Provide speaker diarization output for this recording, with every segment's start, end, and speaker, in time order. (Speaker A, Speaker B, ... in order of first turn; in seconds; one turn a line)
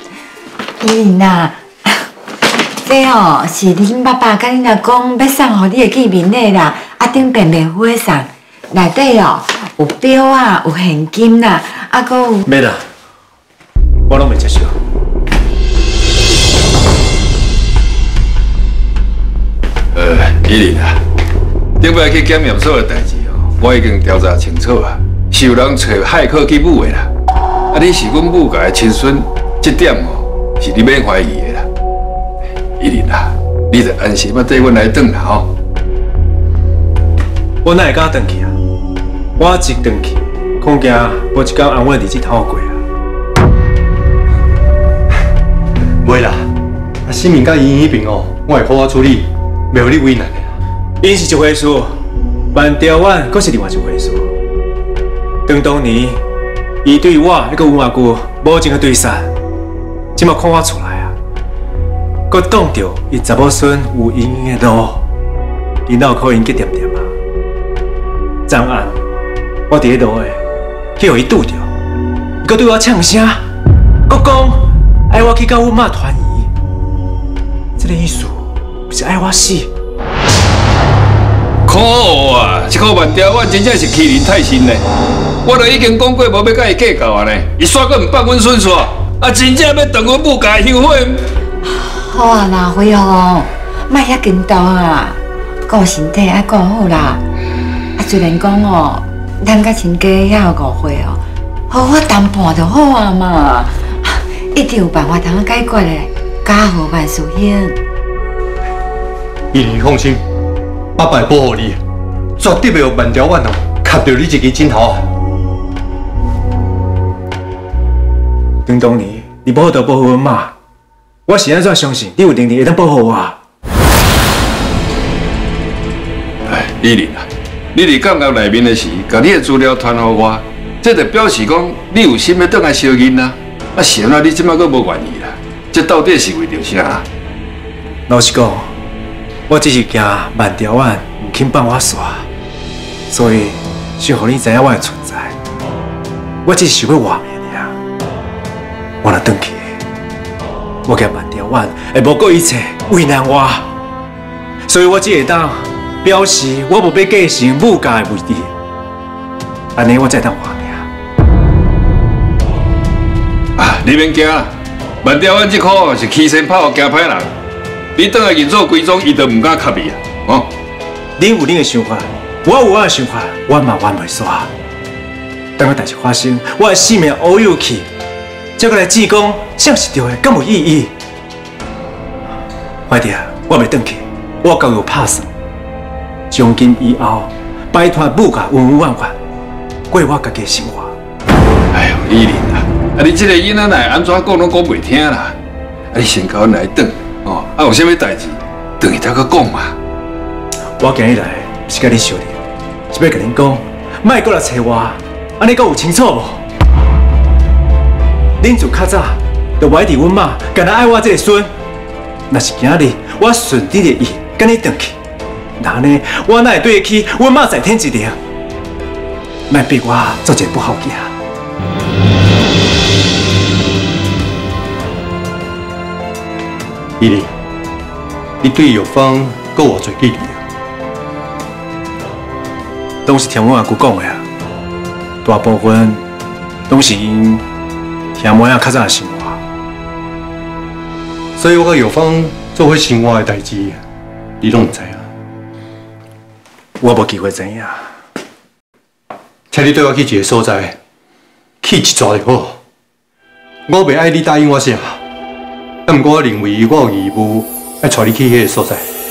Speaker A: 0.8-2.1
Speaker A: 2.8-12.5
Speaker B: 12.5-12.8
Speaker B: 14.1-14.8
Speaker C: 19.9-21.0
Speaker C: 21.8-27.1
Speaker C: 27.7-31.7
Speaker C: 32.8-35.5
Speaker B: 37.6-38.5
Speaker B: 39.4-42.8
Speaker D: 46.0-46.5
Speaker D: 47.0-50.5
Speaker B: 51.0-52.0
Speaker B: 52.5-54.3
Speaker B: 55.5-56.2
Speaker B: 56.8-59.3
Speaker B: 60.2-61.1
Speaker B: 62.3-65.0
Speaker B: 65.9-67.1
Speaker B: 68.5-69.0
Speaker B: 69.7-70.4
Speaker B: 71.0-71.7
Speaker B: 72.4-73.5
Speaker B: 74.1-76.5
Speaker B: 77.8-79.7
Speaker C: 81.7-84.8
Speaker C: 85.4-91.2
Speaker A: 91.6-97.2
Speaker A: 98.0-107.8
Speaker D: 109.5-110.2
Speaker D: 111.0-111.8
Speaker D: 112.4-115.1
Speaker B: 118.7-120.5
Speaker B: 121.3-123.4
Speaker C: 126.5-137.1
Speaker B: 138.1-138.7
Speaker B: 139.5-142.3
Speaker B: 143.1-145.4
Speaker B: 146.4-147.8
Speaker B: 149.0-149.7
Speaker B: 150.9-153.7
Speaker B: 154.7-158.5
Speaker B: 159.8-160.9
Speaker C: 163.6-167.3
Speaker C: 168.0-170.5
Speaker B: 171.2-174.5
Speaker B: 175.6-177.9
Speaker B: 178.6-180.9
Speaker B: 182.9-185.3
Speaker B: 186.3-189.2
Speaker B: 189.9-191.0
Speaker C: 191.7-195.4
Speaker C: 195.9-199.8
Speaker B: 200.8-206.4
Speaker B: 208.4-211.5
Speaker B: 212.3-215.0
Speaker B: 215.6-218.2
Speaker B: 219.5-221.1
Speaker D: 227.0-227.3
Speaker D: 228.4-230.4
Speaker B: 233.1-234.2
Speaker B: 235.2-236.0
Speaker B: 236.7-237.4
Speaker B: 238.2-239.4
Speaker D: 241.4-243.8
Speaker D: 244.4-245.1
Speaker B: 246.8-247.9
Speaker D: 249.5-250.8
Speaker D: 251.6-252.6
Speaker D: 253.7-255.0
Speaker D: 255.9-258.9